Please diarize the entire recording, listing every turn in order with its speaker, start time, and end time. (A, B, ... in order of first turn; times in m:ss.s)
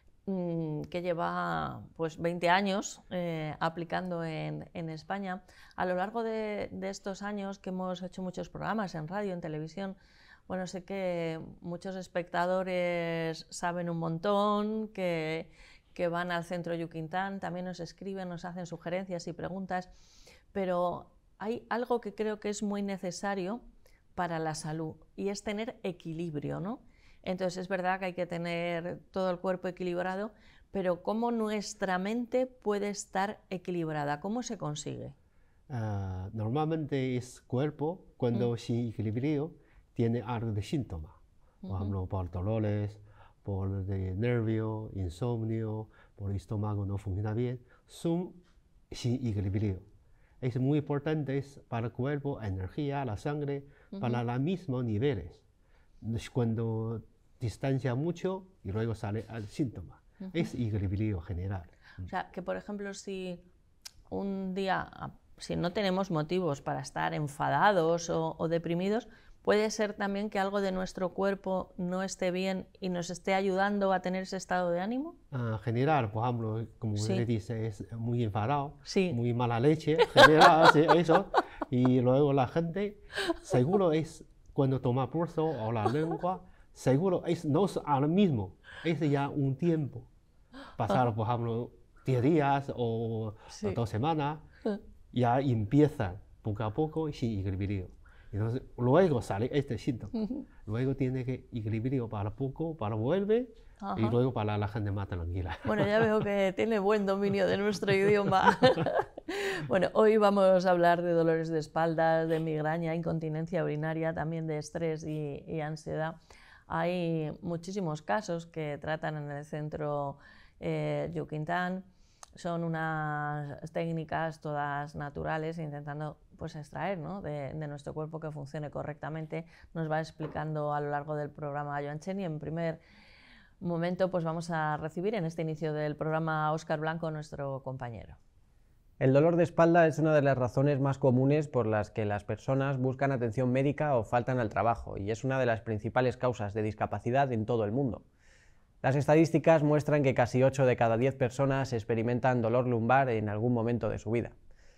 0:00.2-0:10.0 A
0:10.5-0:19.9 A
0:20.5-0:23.6 A
0:24.1-0:35.1 A
0:35.7-0:48.4 B
0:41.6-0:41.9 A
0:48.9-0:49.8 B
0:50.4-0:55.4 B
0:53.9-0:54.2 A
0:56.0-1:01.7 B
1:02.0-1:03.4 A
1:04.1-1:15.2 A
1:15.3-1:30.1 B
1:17.0-1:17.2 A
1:18.8-1:19.2 A
1:20.0-1:20.6 A
1:30.8-1:34.4 B
1:33.5-1:33.8 A
1:35.1-1:46.0 B
1:43.8-1:44.2 A
1:45.6-1:56.2 A
1:56.7-2:01.8 A
2:02.4-2:12.8 A
2:13.6-2:18.2 A
2:19.0-2:28.0 C
2:28.8-2:34.3 C